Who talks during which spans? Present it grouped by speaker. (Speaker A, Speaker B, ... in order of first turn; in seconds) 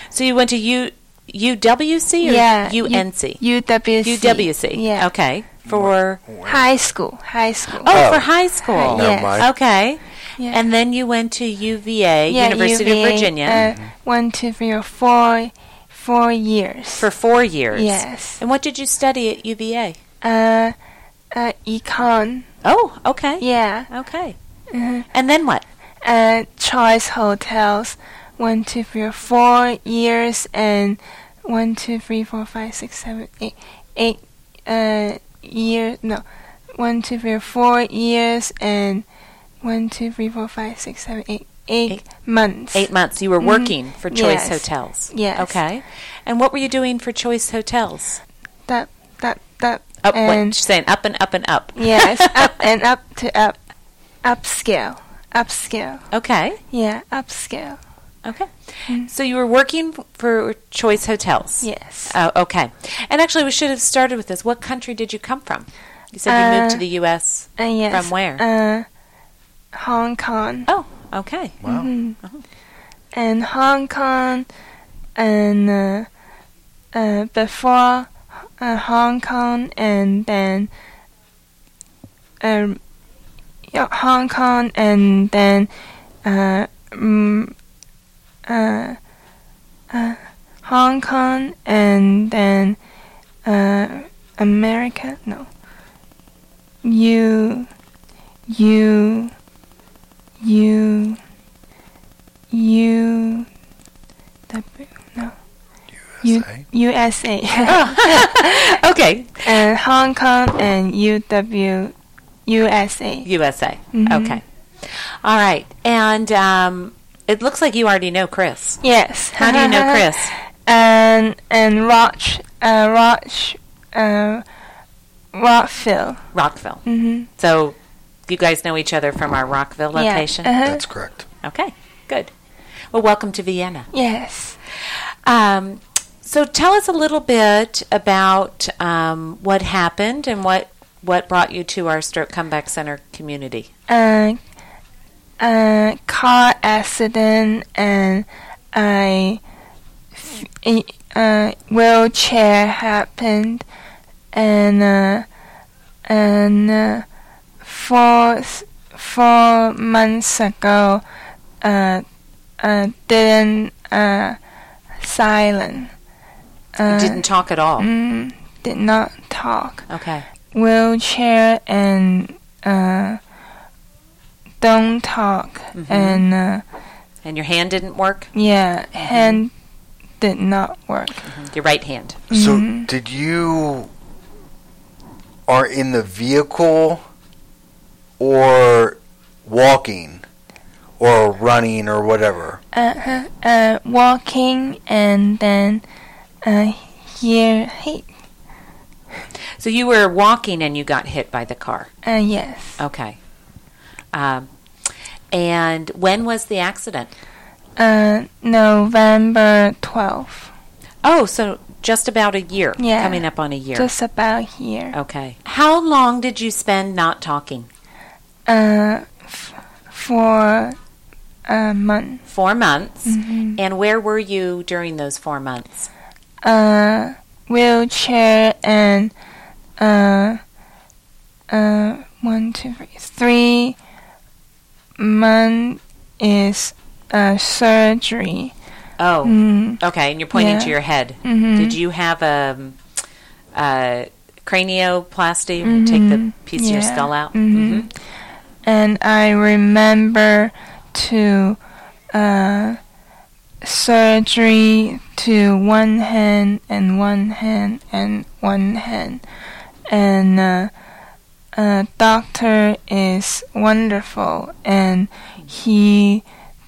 Speaker A: 0.1-3.4, 4.0-6.2, 7.8-13.6, 17.0-20.0, 22.6-24.4, 25.1-25.6, 42.7-48.2, 50.0-52.5, 56.1-56.6, 58.2-68.4, 70.7-71.6, 107.7-109.6, 113.2-118.8, 119.4-120.3, 126.3-126.8, 127.4-127.8, 128.3-130.5, 131.4-132.3, 132.9-133.9, 134.8-143.7, 166.9-167.9, 169.9-170.2, 175.7-176.2, 177.2-178.3, 179.0-179.4, 181.2-182.2, 199.6-201.9, 202.8-203.2, 204.1-204.5, 205.3-207.1, 211.0-213.9, 214.9-217.7, 222.3-225.9, 239.0-242.8, 243.5-247.9
Speaker B: 2.2-5.1, 6.4-7.9, 8.8-9.4, 12.3-17.1, 17.7-18.4, 20.2-20.7, 21.3-22.5, 23.4-23.9, 24.7-25.1, 26.0-39.0, 39.6-42.9, 43.4-45.6, 48.7-50.5, 51.8-53.6, 54.2-56.0, 56.7-57.8, 61.6-62.1, 66.3-66.8, 67.6-68.8, 69.7-70.7, 71.7-72.2, 73.1-74.5, 75.2-76.1, 76.9-80.7, 82.4-82.8, 83.7-85.7, 86.2-87.5, 88.5-89.0, 89.9-92.8, 93.4-95.5, 96.8-97.7, 98.5-99.3, 100.4-101.2, 102.5-103.5, 104.5-105.3, 106.2-108.7, 109.4-111.9, 112.5-113.2, 113.9-114.4, 118.8-120.1, 120.7-124.4, 125.3-126.2, 126.8-127.3, 129.9-130.8, 133.9-134.6, 143.9-144.4, 145.4-149.4, 150.2-153.6, 154.3-155.2, 156.1-157.0, 157.6-161.0, 161.6-162.0, 162.6-164.4, 165.0-165.9, 166.8-167.2, 167.8-169.9, 170.5-173.2, 174.6-176.6, 178.3-179.5, 180.2-181.2, 182.3-182.9, 192.7-195.8, 196.4-198.1, 202.0-202.8, 207.8-210.5, 212.8-214.9, 218.5-220.8, 221.5-222.2, 223.1-223.6, 226.4-229.1, 229.8-230.4, 231.5-233.8, 235.0-238.5, 239.2-239.8, 240.3-240.7, 241.2-241.8, 245.6-247.9, 248.6-251.6, 252.1-252.8, 253.6-259.2, 259.9-260.7, 261.5-266.2
Speaker C: 5.7-6.7, 7.9-9.5, 13.5-13.9, 71.6-71.9, 106.0-106.7, 130.6-131.3, 182.3-183.9, 185.5-187.0, 188.2-190.2, 191.0-192.6